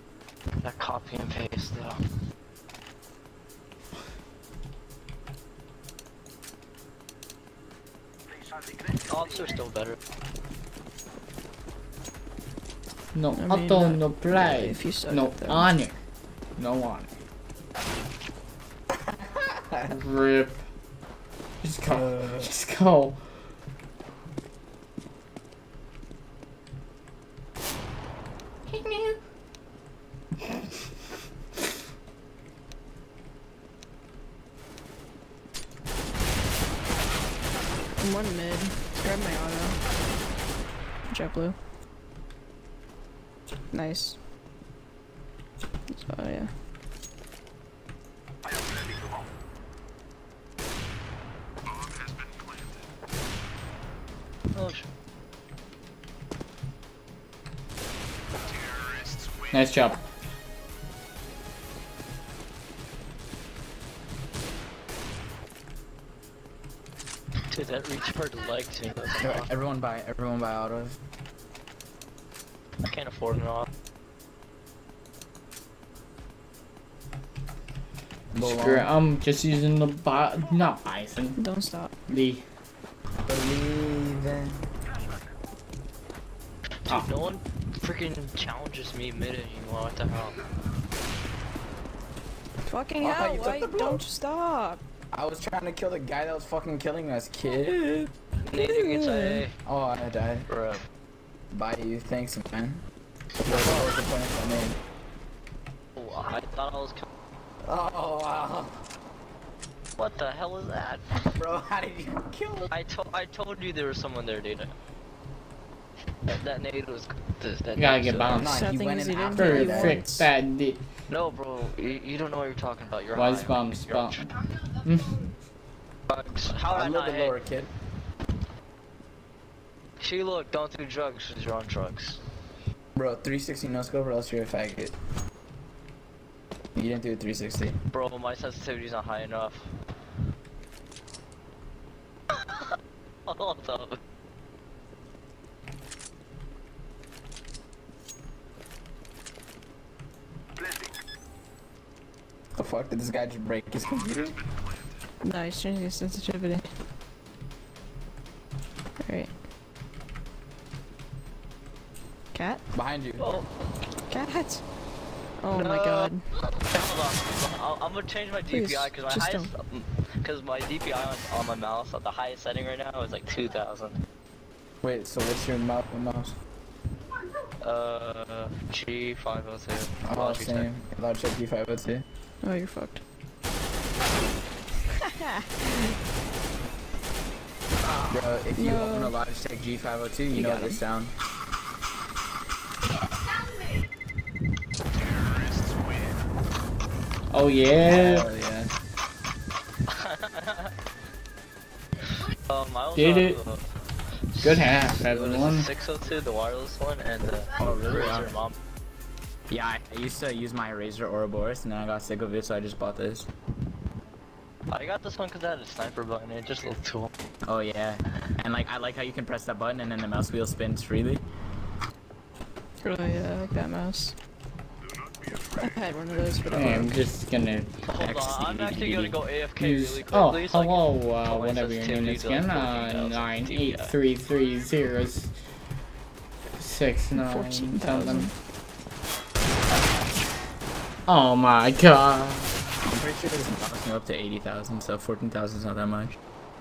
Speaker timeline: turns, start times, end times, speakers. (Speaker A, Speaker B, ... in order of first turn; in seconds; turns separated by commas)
Speaker A: 0.6-2.0, Speaker A: 9.0-10.0, Speaker B: 13.1-16.0, Speaker C: 13.3-15.7, Speaker B: 16.6-17.1, Speaker D: 18.9-20.0, Speaker B: 19.9-20.6, Speaker B: 21.6-23.3, Speaker D: 22.0-22.5, Speaker B: 28.7-29.2, Speaker C: 38.0-39.8, Speaker C: 41.1-41.5, Speaker C: 43.7-44.2, Speaker C: 45.9-46.5, Speaker A: 54.5-54.8, Speaker B: 59.5-60.0, Speaker A: 67.5-69.5, Speaker D: 69.2-71.0, Speaker A: 72.8-73.7, Speaker D: 78.3-78.9, Speaker B: 78.4-81.4, Speaker C: 81.4-81.9, Speaker B: 82.1-82.4, Speaker D: 83.1-84.7, Speaker A: 86.8-90.4, Speaker C: 92.6-94.8, Speaker D: 93.0-94.0, Speaker D: 95.1-98.1, Speaker A: 98.5-99.5, Speaker C: 98.5-99.4, Speaker D: 99.6-100.5, Speaker A: 100.5-100.8, Speaker D: 101.5-102.8, Speaker D: 103.4-104.8, Speaker A: 103.4-103.9, Speaker A: 106.0-107.1, Speaker D: 107.6-108.8, Speaker A: 110.0-111.1, Speaker D: 111.2-112.7, Speaker A: 112.7-114.7, Speaker A: 116.2-118.5, Speaker B: 117.8-118.7, Speaker D: 118.3-120.0, Speaker C: 118.4-120.3, Speaker B: 119.3-120.8, Speaker A: 121.1-124.3, Speaker B: 123.1-124.2, Speaker B: 124.8-125.3, Speaker A: 126.1-127.3, Speaker D: 126.5-127.7, Speaker A: 130.0-132.2, Speaker D: 132.9-134.9, Speaker D: 136.7-137.8, Speaker A: 137.9-139.7, Speaker A: 142.3-142.7, Speaker A: 143.2-144.0, Speaker D: 152.5-154.4, Speaker C: 155.2-156.7, Speaker C: 159.0-159.3, Speaker C: 162.3-162.6, Speaker D: 162.7-163.3, Speaker A: 163.2-163.6, Speaker C: 164.1-164.6, Speaker C: 165.4-166.2, Speaker A: 165.5-174.0, Speaker C: 168.5-169.5, Speaker D: 174.8-176.3, Speaker A: 177.6-180.7, Speaker D: 180.0-182.0, Speaker C: 182.4-183.0, Speaker C: 184.9-185.9, Speaker D: 188.1-191.1, Speaker C: 188.6-189.1, Speaker C: 190.3-190.8, Speaker B: 197.3-198.3, Speaker D: 197.8-198.7, Speaker A: 199.9-200.7, Speaker A: 202.1-203.7, Speaker B: 202.9-203.4, Speaker A: 204.3-208.5, Speaker B: 204.4-205.7, Speaker D: 207.6-208.3, Speaker D: 209.5-213.3, Speaker A: 214.7-217.1, Speaker D: 217.4-221.2, Speaker C: 222.8-224.1, Speaker C: 225.5-226.9, Speaker B: 226.5-227.7, Speaker A: 227.9-233.9, Speaker D: 227.9-229.2, Speaker B: 229.6-235.3, Speaker B: 236.5-238.3, Speaker C: 237.1-238.3, Speaker B: 241.1-242.5, Speaker D: 242.8-246.2